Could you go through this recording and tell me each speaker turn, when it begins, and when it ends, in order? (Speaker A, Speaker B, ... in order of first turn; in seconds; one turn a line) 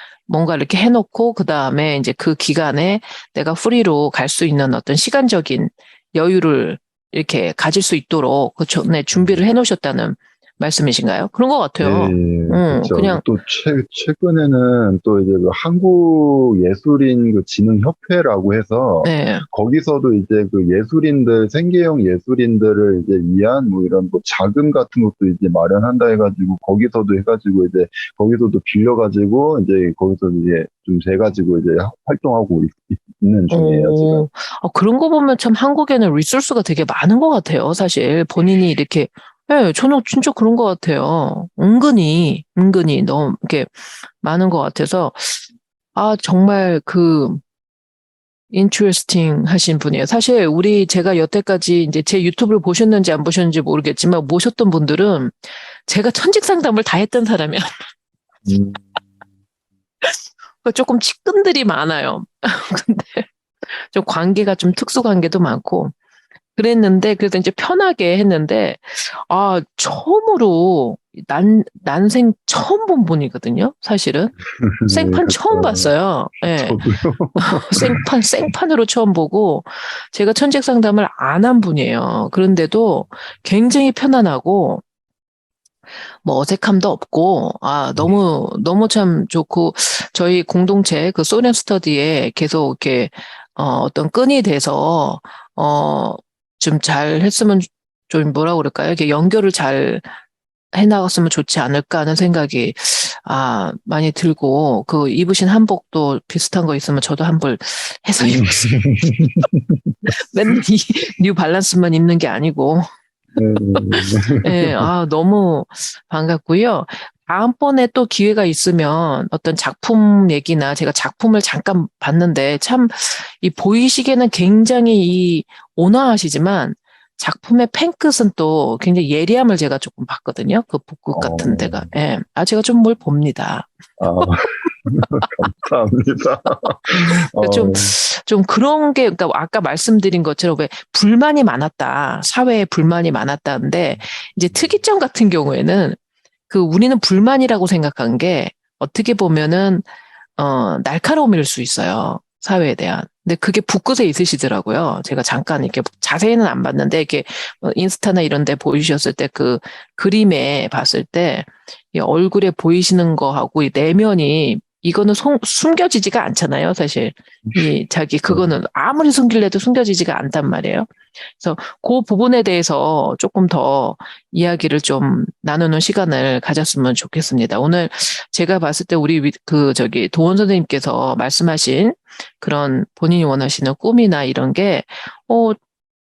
Speaker A: 0.3-13.2
Speaker B: 9.1-9.4
Speaker B: 11.8-34.2
Speaker A: 19.0-19.5
Speaker A: 33.5-47.4
Speaker A: 48.5-57.8
Speaker B: 58.5-58.9
Speaker A: 60.0-65.9
Speaker A: 66.6-76.8
Speaker B: 74.6-75.9
Speaker B: 76.4-78.1
Speaker A: 77.4-84.8
Speaker A: 86.2-100.0
Speaker A: 100.7-108.7
Speaker B: 108.3-110.0
Speaker A: 110.1-112.9
Speaker B: 113.4-114.9
Speaker A: 113.5-134.3
Speaker B: 131.2-131.9
Speaker B: 134.0-137.9
Speaker A: 137.0-146.0
Speaker A: 146.5-185.6
Speaker B: 168.3-168.5